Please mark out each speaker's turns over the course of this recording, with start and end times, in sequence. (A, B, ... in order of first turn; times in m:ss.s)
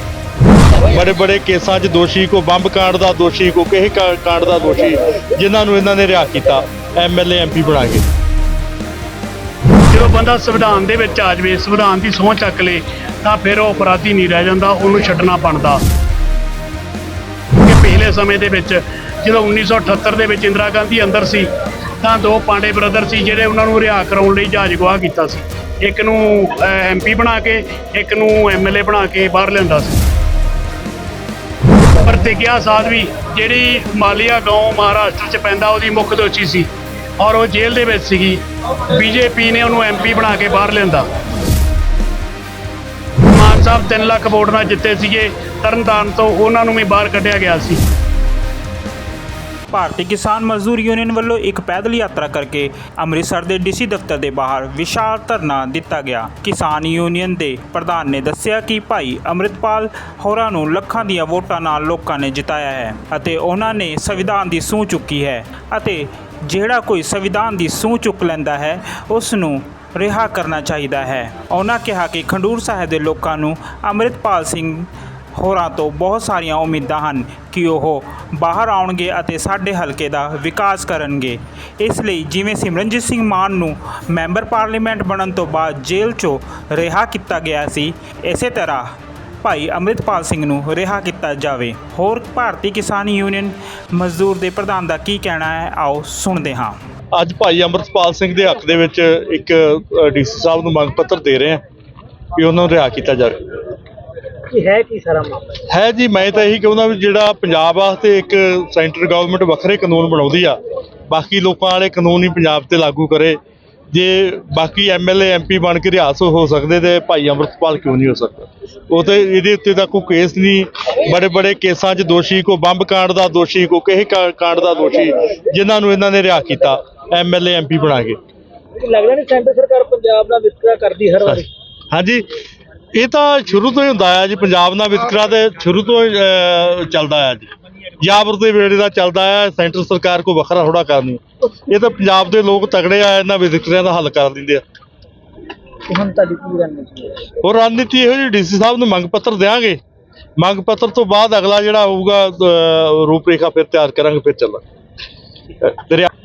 0:00.8-0:08.0 A
0:09.9-0:15.8 B
0:17.6-0:21.5 B
0:22.0-0:30.0 B
0:32.0-0:36.7 B
0:37.2-0:41.0 B
0:43.3-0:47.8 B
0:49.7-1:28.9 C
1:29.4-1:36.8 C
1:37.1-1:41.6 A
1:42.4-1:43.4 A
1:44.5-1:45.6 D
1:45.7-1:50.6 A
1:51.1-1:53.4 A
1:53.9-2:08.2 A
2:08.8-2:11.5 D
2:11.2-2:12.2 A
2:12.9-2:24.6 A
2:25.9-2:27.3 D
2:27.4-2:29.8 A
2:30.4-2:34.6 A
2:35.6-2:36.1 A